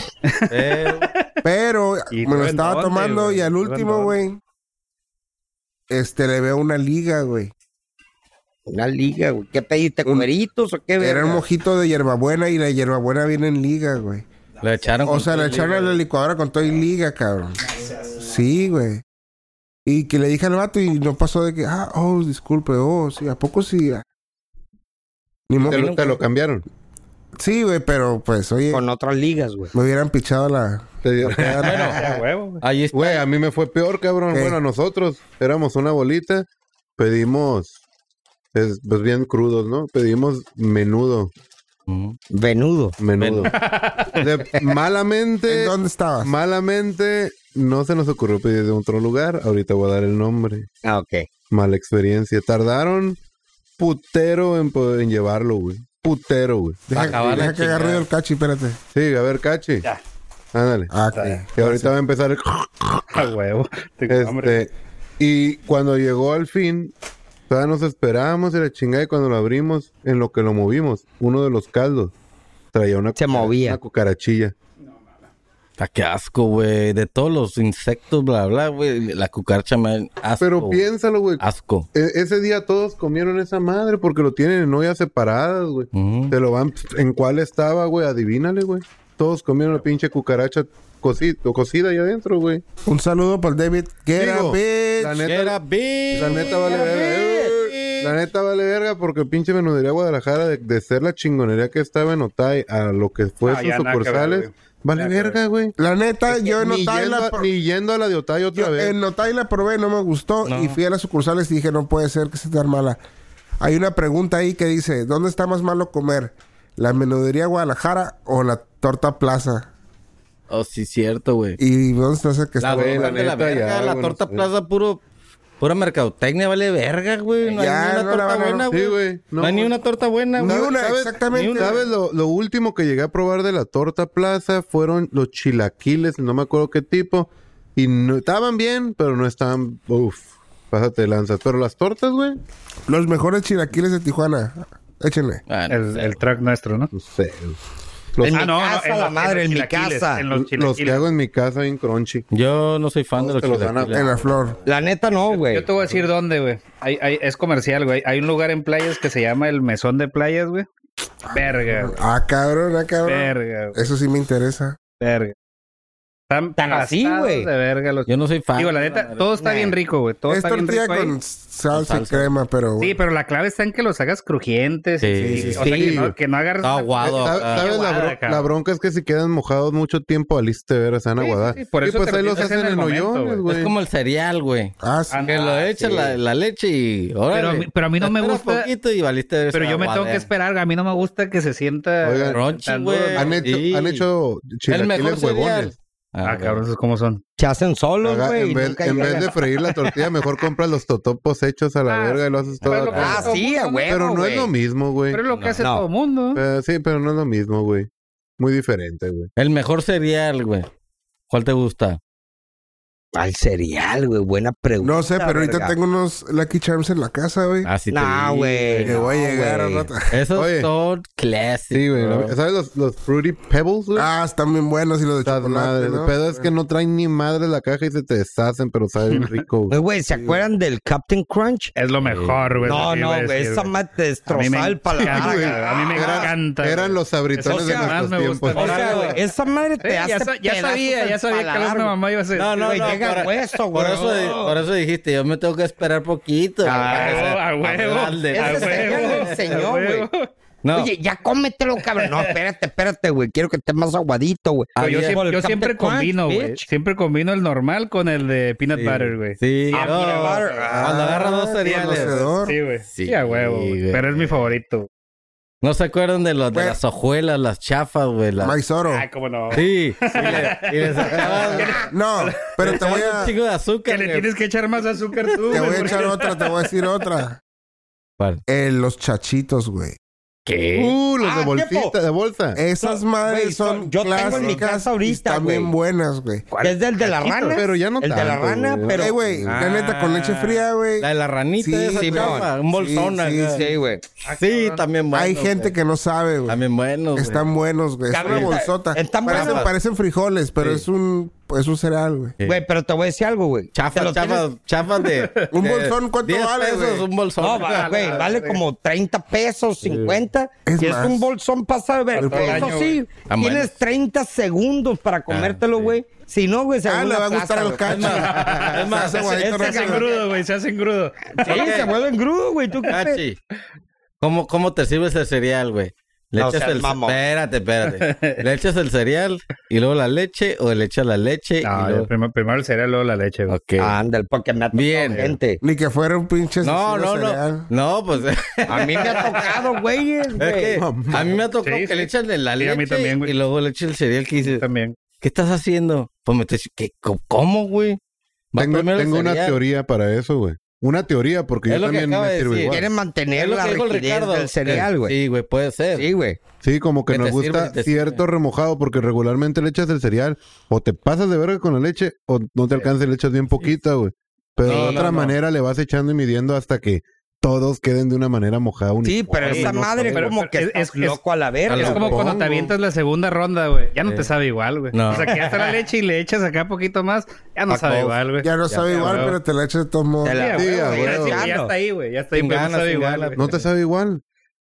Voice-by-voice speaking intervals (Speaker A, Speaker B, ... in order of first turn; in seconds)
Speaker A: 0.3-1.2, 2.1-4.2, 31.6-32.6, 43.5-44.1, 61.1-61.8, 63.1-64.6, 103.4-105.4, 145.7-146.9, 148.3-151.0, 155.3-160.7, 161.3-162.0, 163.0-163.8, 165.0-165.3, 166.3-171.1, 172.8-178.4, 181.2-183.4, 185.1-186.1, 187.3-188.7, 189.5-193.4, 196.2-197.2, 201.9-203.9, 205.1-206.4, 231.7-233.7, 234.3-239.2, 239.8-242.7, 246.7-250.3, 252.0-252.3, 254.8-260.7, 261.6-264.9, 268.9-272.9, 273.9-276.6, 286.5-286.8, 294.2-294.8, 305.0-305.5, 307.5-308.6, 312.1-313.0, 318.0-318.8, 319.6-321.8, 327.9-328.4, 331.6-333.6, 341.6-343.3, 344.4-344.9, 369.4-371.2, 371.8-379.3, 380.3-383.5
Speaker B: 0.5-1.1, 14.6-16.0, 31.3-32.0, 32.6-33.2, 41.9-42.2, 43.2-43.5, 57.0-58.0, 75.8-80.8, 81.4-81.9, 85.9-86.3, 95.2-98.2, 110.5-110.8, 120.5-121.6, 122.6-125.0, 125.6-130.7, 131.3-131.8, 145.5-146.2, 152.3-154.1, 168.1-169.3, 171.7-172.3, 175.0-175.7, 176.6-177.7, 183.4-184.7, 185.3-190.3, 192.3-194.1, 194.7-196.6, 202.8-203.3, 205.3-205.6, 209.4-210.7, 211.3-212.0, 217.6-219.0, 220.1-222.3, 232.0-232.9, 238.5-239.2, 242.3-249.6, 250.6-250.9, 254.7-255.2, 258.8-262.2, 262.9-264.4, 265.6-268.5, 269.5-271.8, 272.6-274.3, 280.4-280.9, 284.2-284.6, 289.5-293.6, 294.3-295.7, 296.5-297.4, 298.2-298.6, 299.2-299.7, 300.6-300.8, 303.7-308.3, 313.3-313.8, 315.3-316.0, 317.8-319.4, 321.4-321.9, 322.9-323.4, 324.2-332.1, 333.5-333.9, 334.7-335.3, 336.6-339.8, 340.4-344.6, 345.2-348.0, 348.5-349.6, 351.7-352.8, 353.3-356.1, 357.1-358.2, 364.6-365.3, 371.7-372.2, 374.9-375.8, 377.7-378.1, 378.7-379.3, 382.3-383.6
Speaker C: 1.4-4.4, 5.9-7.5, 10.0-10.3, 11.0-14.2, 15.0-19.0, 19.9-24.0, 25.5-26.2, 27.4-28.8, 29.7-31.6, 34.3-34.6, 45.5-46.3, 56.9-58.8, 60.9-61.8, 92.8-95.3, 96.1-97.7, 105.8-107.5, 108.5-113.0, 113.6-119.7, 121.6-123.2, 127.4-128.7, 130.4-131.8, 142.9-145.4, 153.9-154.6, 161.3-164.8, 170.3-173.0, 175.2-175.6, 184.8-185.2, 214.8-217.7, 218.8-220.1, 223.9-226.5, 260.7-262.6, 266.5-266.8, 268.4-269.1, 271.9-273.3, 275.5-277.4, 278.5-280.0, 282.5-286.5, 288.9-291.1, 291.6-293.7, 295.1-296.6, 297.1-302.4, 305.5-307.1, 310.6-311.3, 312.1-312.8, 316.8-320.1, 335.6-337.7, 378.4-380.4
Speaker D: 8.7-11.4, 28.7-29.7, 42.3-43.0, 50.8-51.3, 73.2-73.8, 148.2-150.2, 154.6-155.7, 166.6-167.5, 169.4-169.8, 175.6-175.9, 197.4-199.3, 202.9-204.5, 205.6-205.8, 213.1-215.7, 217.9-219.9, 229.7-231.7, 232.6-236.3, 237.4-238.0, 238.5-241.9, 242.6-244.5, 246.6-247.3, 248.3-250.1, 250.7-256.6, 259.7-261.2, 271.4-271.8, 281.2-281.9, 282.8-285.7, 286.6-289.1, 292.0-292.5, 293.5-294.1, 298.1-299.6, 302.4-304.4, 307.4-318.3, 319.0-320.2, 321.4-323.2, 326.4-327.2, 333.8-335.6, 338.7-340.8, 352.7-355.1, 355.9-356.4, 364.6-365.2, 369.0-372.3, 380.2-381.7
Speaker E: 25.7-26.6, 31.0-32.2, 32.9-36.5, 37.0-37.7, 38.5-41.3, 43.0-43.6, 44.1-50.7, 51.5-53.2, 53.8-57.5, 58.9-59.9, 60.5-63.3, 64.1-66.9, 67.5-72.1, 72.7-74.5, 80.4-81.4, 81.9-92.6, 94.2-95.6, 96.1-105.7, 106.3-108.9, 122.6-124.5, 128.7-129.7, 130.4-142.4, 146.9-147.6, 148.2-148.4, 150.3-152.2, 153.2-154.1, 175.6-176.1, 177.0-183.7, 192.0-192.4, 193.1-195.7, 198.0-203.3, 203.8-205.2, 206.3-209.3, 220.3-220.7, 221.7-224.1, 225.2-229.8, 235.0-239.0, 280.7-282.6, 287.3-289.6, 340.8-341.4, 348.6-352.9, 356.6-370.3, 371.9-372.7, 380.5-381.5, 383.3-384.2